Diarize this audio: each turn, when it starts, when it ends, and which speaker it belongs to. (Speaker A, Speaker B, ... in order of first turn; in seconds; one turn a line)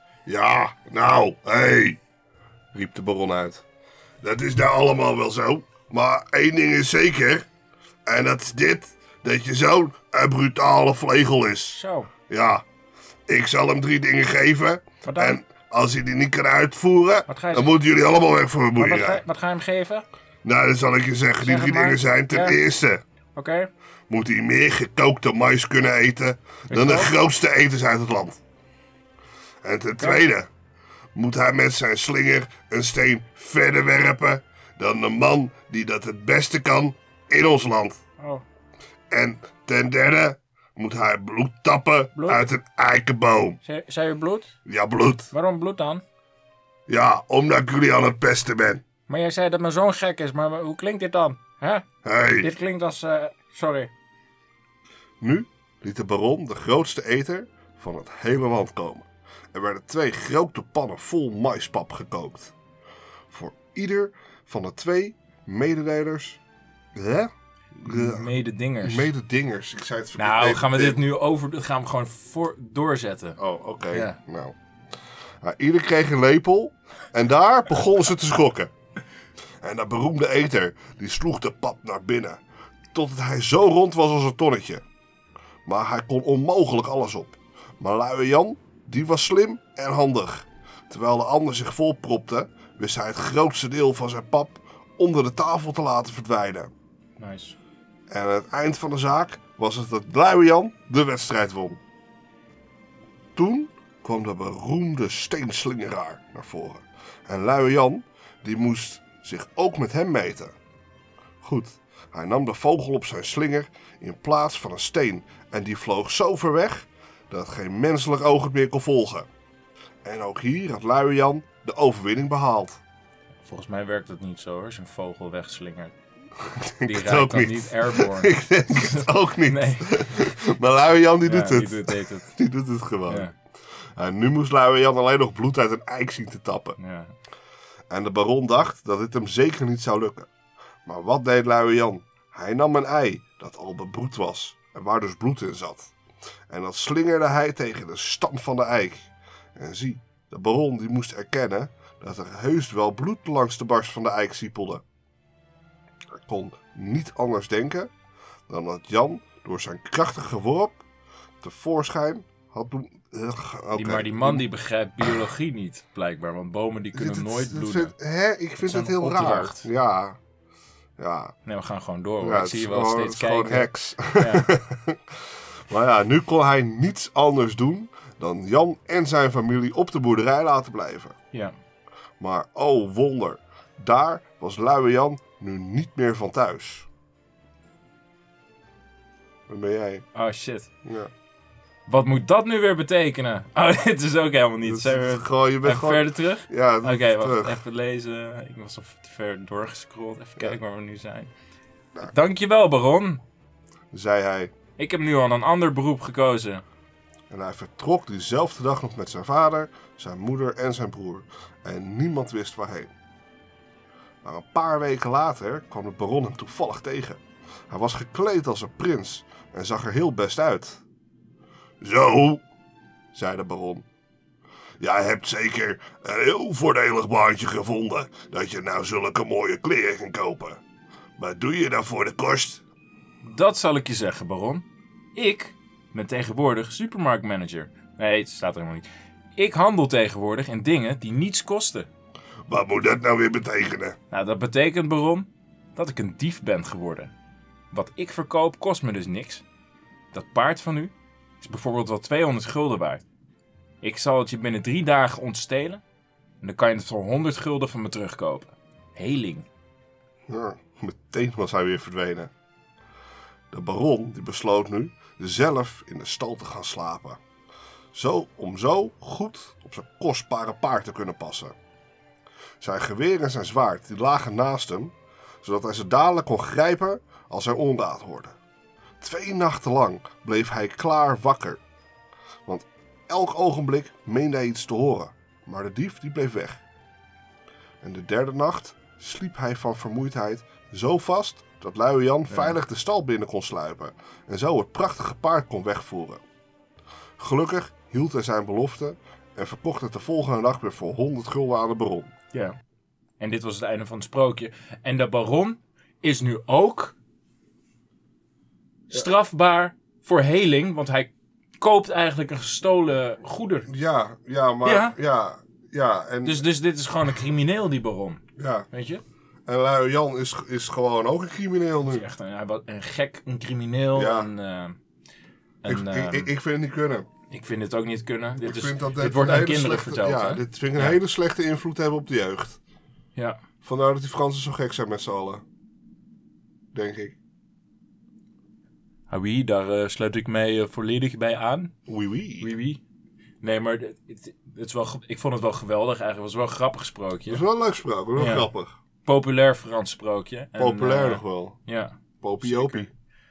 Speaker A: 0.2-2.0
Speaker A: 2.7-3.6
Speaker A: 4.2-7.5
Speaker A: 8.1-12.6
Speaker B: 11.7-12.1
Speaker A: 13.3-19.2
Speaker B: 15.0-15.4
Speaker B: 17.3-17.7
Speaker B: 18.8-20.0
Speaker A: 20.4-23.0
Speaker B: 21.4-22.6
Speaker B: 23.4-23.7
Speaker A: 24.1-28.4
Speaker C: 26.7-27.0
Speaker A: 29.6-30.5
Speaker A: 31.1-38.0
Speaker A: 39.1-43.6
Speaker B: 42.1-42.4
Speaker B: 43.6-44.5
Speaker A: 44.6-45.3
Speaker B: 45.3-46.0
Speaker A: 46.9-48.8
Speaker B: 49.1-51.8
Speaker A: 52.0-52.5
Speaker B: 52.4-53.9
Speaker A: 55.2-62.5
Speaker A: 63.3-66.4
Speaker A: 66.9-67.3
Speaker A: 67.8-68.3
Speaker C: 67.8-69.1
Speaker A: 68.8-71.0
Speaker C: 70.1-73.4
Speaker A: 73.4-74.5
Speaker C: 73.9-74.2
Speaker A: 75.4-78.7
Speaker A: 79.6-82.4
Speaker A: 82.9-84.8
Speaker A: 85.7-96.7
Speaker C: 97.2-97.5
Speaker A: 98.1-101.8
Speaker A: 103.3-110.5
Speaker A: 111.4-119.3
Speaker A: 120.0-122.8
Speaker C: 123.4-125.9
Speaker A: 126.6-133.3
Speaker C: 126.8-130.2
Speaker C: 131.2-132.3
Speaker C: 133.1-133.3
Speaker A: 134.0-136.8
Speaker C: 136.8-137.1
Speaker A: 137.9-140.3
Speaker A: 140.8-145.9
Speaker A: 146.5-154.8
Speaker A: 156.2-157.9
Speaker A: 158.5-160.8
Speaker A: 161.4-164.4
Speaker C: 163.7-167.9
Speaker A: 166.9-170.2
Speaker C: 168.6-169.7
Speaker A: 171.0-171.3
Speaker C: 171.4-174.5
Speaker A: 172.2-175.1
Speaker A: 175.7-181.2
Speaker A: 182.2-186.9
Speaker A: 189.5-190.0
Speaker C: 190.1-190.7
Speaker A: 190.8-191.1
Speaker C: 191.9-201.3
Speaker A: 194.6-197.6
Speaker C: 202.0-203.2
Speaker A: 203.9-204.5
Speaker C: 204.8-206.6
Speaker A: 207.3-212.9
Speaker A: 214.2-220.8
Speaker A: 221.8-222.4
Speaker A: 223.1-223.8
Speaker A: 224.8-230.6
Speaker A: 231.2-232.6
Speaker C: 233.2-241.9
Speaker A: 242.5-244.0
Speaker C: 244.1-247.1
Speaker C: 247.7-249.4
Speaker C: 250.1-253.0
Speaker C: 253.8-255.8
Speaker C: 256.4-259.5
Speaker A: 260.3-262.3
Speaker A: 263.5-267.2
Speaker A: 267.9-271.5
Speaker A: 272.6-278.3
Speaker A: 279.0-281.6
Speaker A: 282.4-286.6
Speaker A: 287.8-296.2
Speaker C: 292.3-292.6
Speaker A: 297.2-302.1
Speaker C: 303.2-306.9
Speaker C: 308.9-313.7
Speaker A: 313.7-316.4
Speaker C: 314.6-314.9
Speaker C: 316.2-319.0
Speaker A: 318.4-318.7
Speaker A: 319.5-322.0
Speaker C: 321.9-324.8
Speaker A: 323.9-324.3
Speaker C: 325.6-326.3
Speaker A: 325.6-327.1
Speaker C: 327.3-331.0
Speaker A: 328.4-332.6
Speaker C: 333.1-333.4
Speaker A: 333.6-335.4
Speaker A: 336.7-337.1
Speaker C: 339.1-341.7
Speaker A: 341.9-342.5
Speaker C: 342.4-342.8
Speaker C: 343.4-347.4
Speaker A: 347.2-348.7
Speaker C: 348.1-348.5
Speaker C: 349.0-352.9
Speaker A: 350.6-351.6
Speaker A: 352.2-352.9